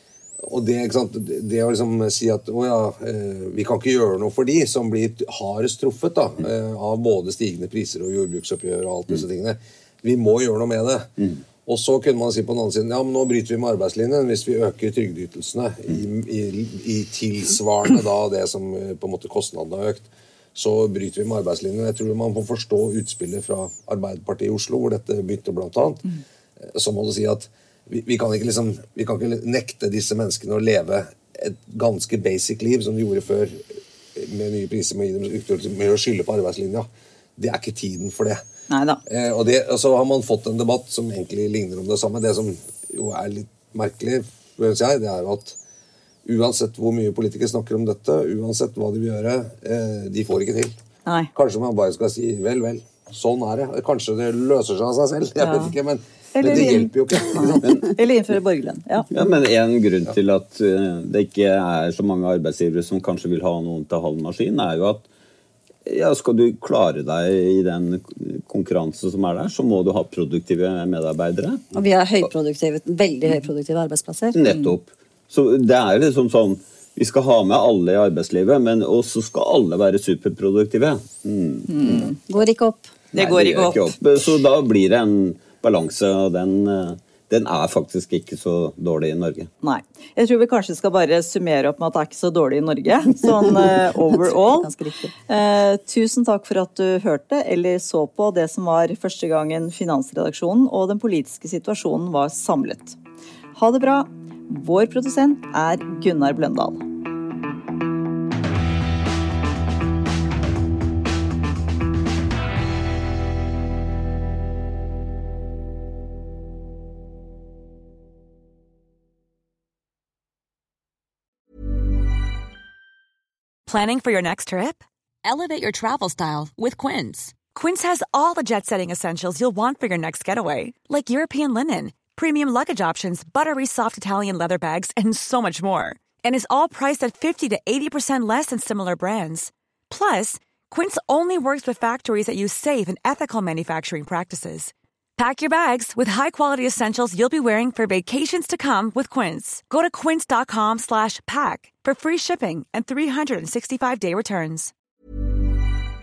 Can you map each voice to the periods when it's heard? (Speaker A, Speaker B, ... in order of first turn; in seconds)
Speaker A: 0.4-36.9, 37.4-38.4, 39.0-45.6, 46.2-50.8, 51.3-57.8
Speaker B: 38.7-39.0, 55.4-55.7, 56.4-59.1, 74.5-74.7, 81.7-82.2, 83.1-84.0, 89.6-94.7, 95.2-103.0, 103.5-106.8
Speaker C: 59.1-65.1, 65.8-71.6, 74.3-82.2, 83.1-89.5
Speaker D: 71.7-74.4, 82.3-82.9, 93.4-95.1
Speaker E: 123.7-154.7